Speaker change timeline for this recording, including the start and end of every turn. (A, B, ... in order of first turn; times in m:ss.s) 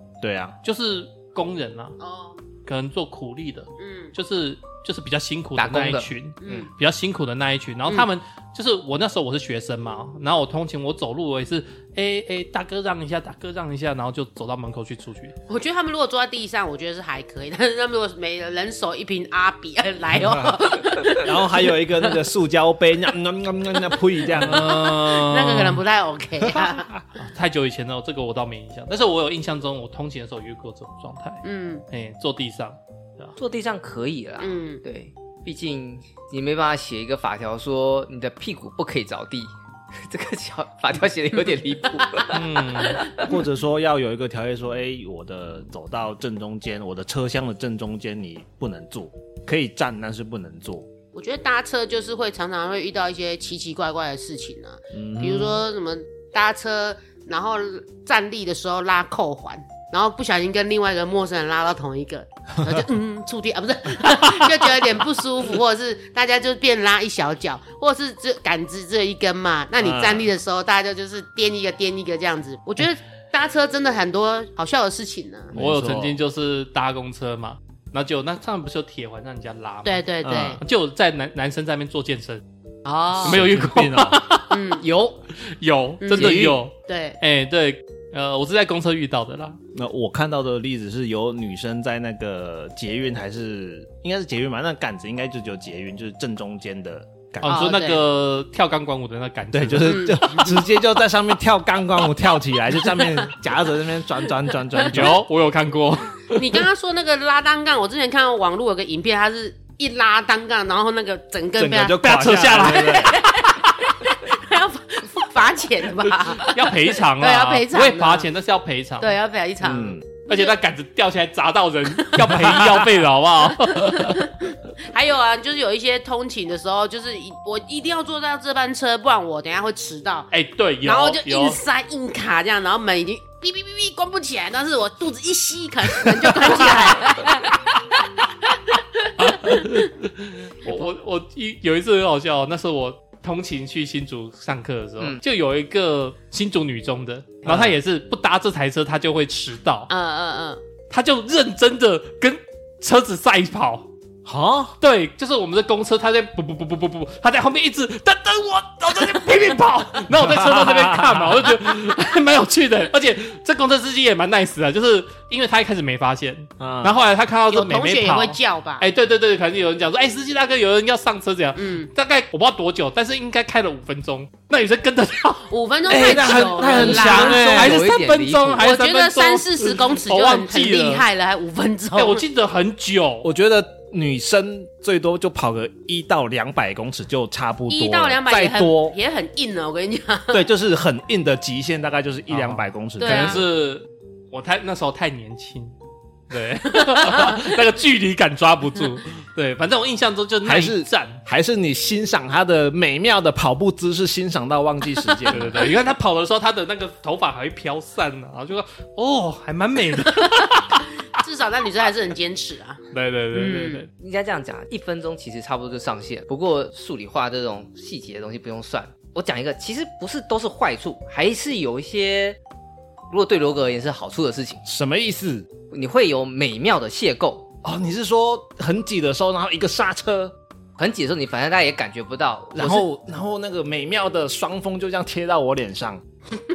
0:00.2-0:00.6 A
0:00.6-0:02.0 B
0:02.0-0:02.4 C
0:02.6-0:15.4 B
0:03.8-0:04.1 C
0:05.6-0:06.7 D
0:06.4-0:06.7 C
0:15.5-0:21.5 C
0:20.2-0:24.7 A
0:24.3-0:26.9 C
0:24.4-0:25.8 B
0:26.4-0:27.0 A
0:27.2-0:33.4 B
0:31.4-0:31.8 C
0:33.4-0:43.2 D
0:34.4-0:34.8 C
0:42.0-0:43.2 C
0:42.3-0:43.1 B
0:43.2-0:50.9 A
0:51.1-1:15.6 C
0:54.9-0:55.6 A
1:09.8-1:10.3 A
1:15.5-1:16.2 A
1:15.5-1:22.4 B
1:19.8-1:20.6 C
1:20.2-1:20.6 A
1:22.8-1:23.4 C
1:23.2-1:24.7 B
1:23.2-1:24.2 A
1:24.5-1:24.8 C
1:24.8-1:25.2 D
1:25.4-1:29.6 B
1:26.0-1:27.2 C
1:26.1-1:26.6 A
1:29.7-1:37.7 A
1:37.4-1:40.5 B
1:37.5-1:38.0 C
1:39.5-1:45.2 A
1:39.8-1:40.5 C
1:44.8-1:46.6 B
1:46.3-1:52.0 C
1:51.6-1:53.2 A
1:52.0-1:53.2 B
1:52.7-1:58.3 C
1:56.3-1:59.2 B
1:59.0-2:00.5 C
1:59.6-2:00.0 A
2:00.3-2:04.3 B
2:02.0-2:02.7 C
2:03.6-2:10.3 C
2:10.3-2:11.6 B
2:10.8-2:19.8 C
2:16.7-2:17.1 B
2:19.2-2:29.9 B
2:27.4-2:27.7 A
2:29.9-2:30.6 C
2:30.9-2:33.9 B
2:34.2-2:34.8 A
2:34.8-2:55.5 B
2:40.2-2:41.3 A
2:46.6-2:46.9 A
2:47.5-2:48.8 C
2:51.6-2:51.9 C
2:55.5-2:57.5 C
2:55.9-2:57.8 A
2:56.6-2:58.6 D
2:57.3-3:01.0 B
2:58.6-3:02.2 C
3:01.9-3:03.3 B
3:03.2-3:08.9 A
3:07.7-3:10.4 C
3:10.3-3:13.4 A
3:12.3-3:15.7 B
3:13.0-3:13.4 C
3:16.3-3:21.2 B
3:17.1-3:17.4 C
3:20.4-3:25.7 A
3:25.3-3:30.8 B
3:30.2-3:32.8 C
3:32.9-3:33.9 B
3:33.3-3:33.8 C
3:33.9-3:42.4 D
3:43.1-3:44.6 D
3:44.6-3:45.5 A
3:45.7-3:47.5 D
3:47.6-3:50.3 A
3:50.8-3:52.8 D
3:52.5-3:56.0 A